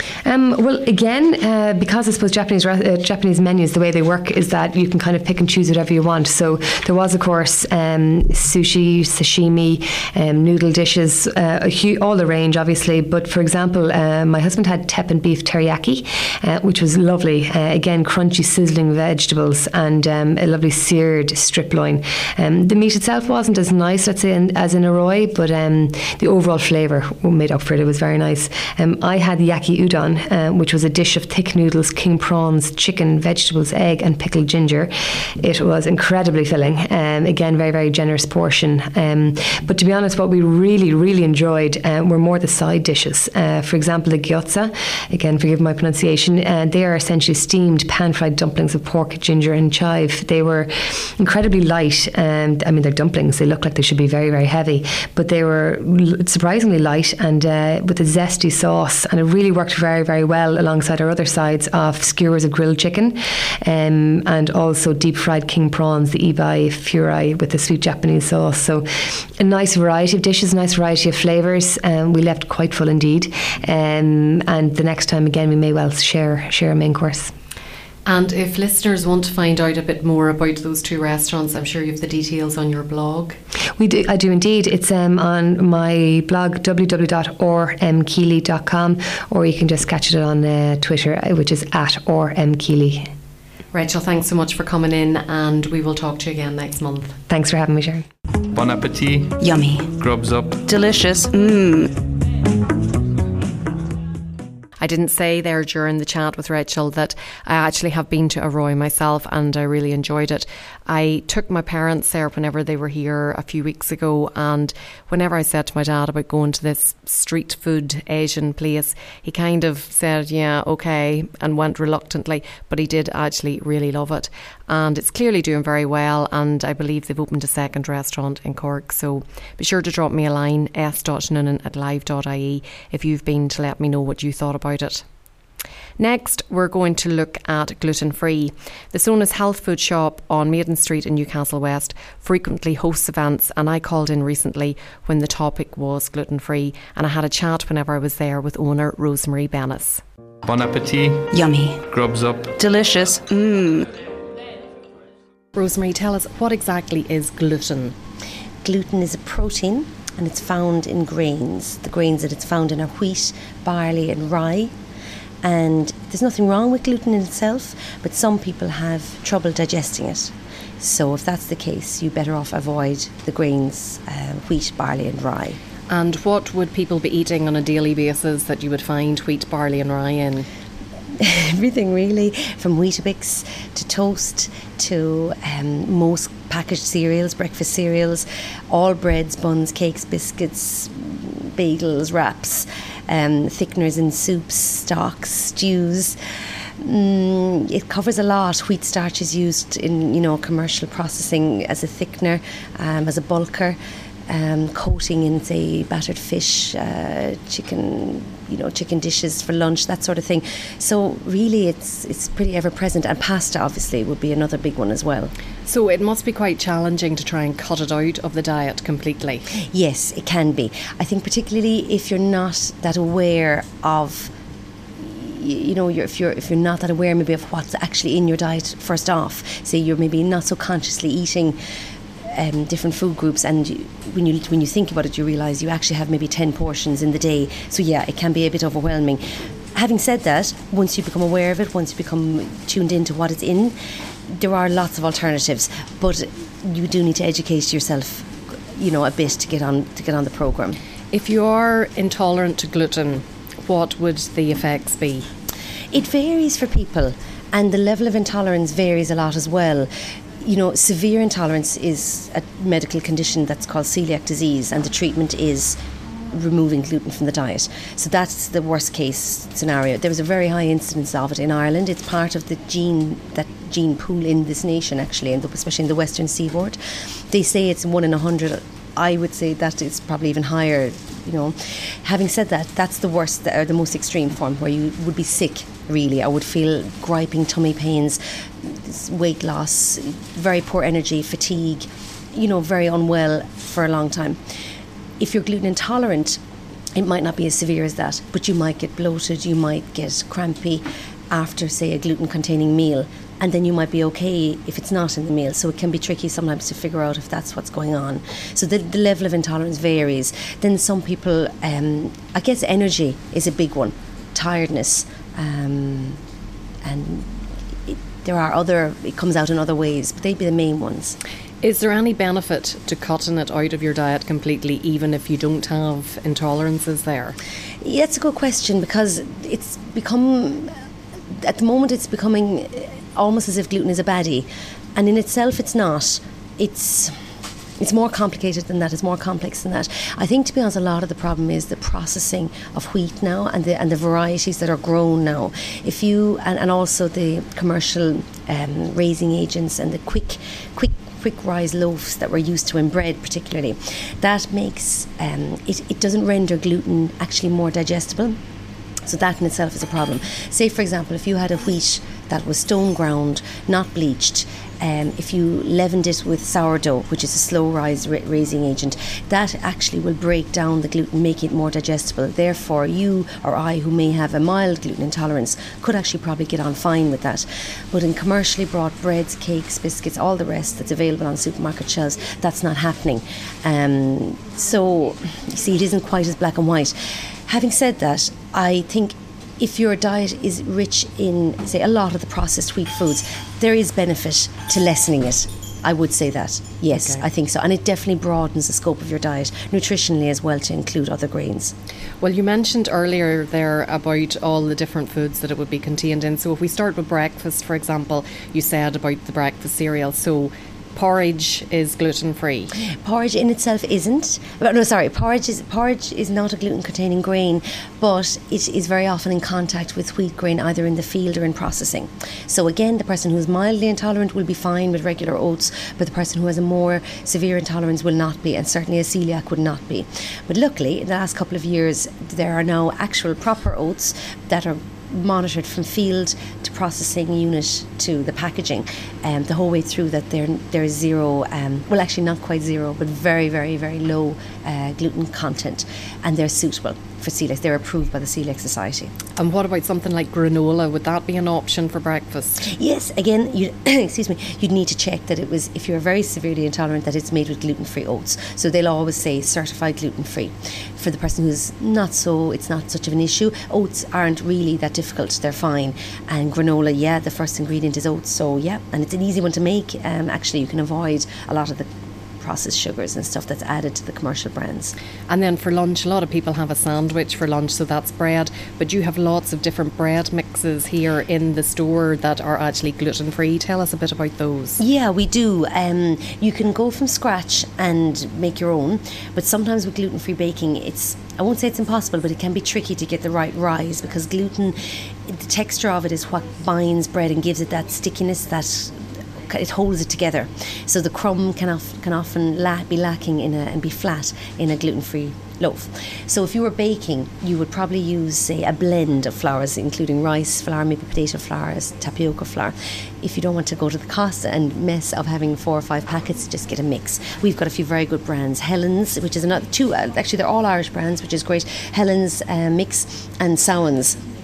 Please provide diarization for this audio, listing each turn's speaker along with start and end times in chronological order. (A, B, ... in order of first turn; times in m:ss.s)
0:00.2-1:17.3 A
1:18.0-1:23.4 B
1:23.8-1:33.1 A
1:33.7-1:37.2 B
1:37.3-1:38.0 A
1:38.5-1:39.4 C
1:39.4-1:39.9 D
1:40.0-1:40.6 C
1:40.6-1:41.9 D
1:44.8-2:15.0 B
2:16.0-2:30.0 B
2:30.4-2:31.3 C
2:31.3-2:31.8 D
2:31.9-2:32.6 C
2:32.6-2:33.9 D
2:35.5-2:37.9 B
2:38.6-2:44.7 E
2:45.4-2:55.6 E
2:55.9-3:00.5 B
3:01.2-3:16.2 E
3:16.8-3:35.3 E
3:35.7-3:39.5 B
3:39.7-3:44.3 E
3:45.0-3:51.6 E
3:52.3-3:59.2 E
3:59.7-4:03.8 E
4:04.3-4:10.8 E
4:11.1-4:15.3 B
4:15.9-4:19.9 E
4:20.4-4:25.8 E
4:26.3-4:36.8 E
4:37.3-4:54.4 E
4:55.2-4:56.4 E
4:56.9-5:16.2 E
5:16.8-5:21.2 E
5:21.6-5:27.4 B
5:27.8-5:30.7 E
5:31.3-5:37.2 E
5:37.8-5:58.4 E
5:59.0-6:41.7 E
6:36.9-6:37.2 B
6:42.2-6:52.7 B
6:53.0-7:29.1 E
7:29.4-7:32.6 B
7:32.6-7:54.9 E
7:55.3-8:04.8 B
8:04.8-8:44.2 E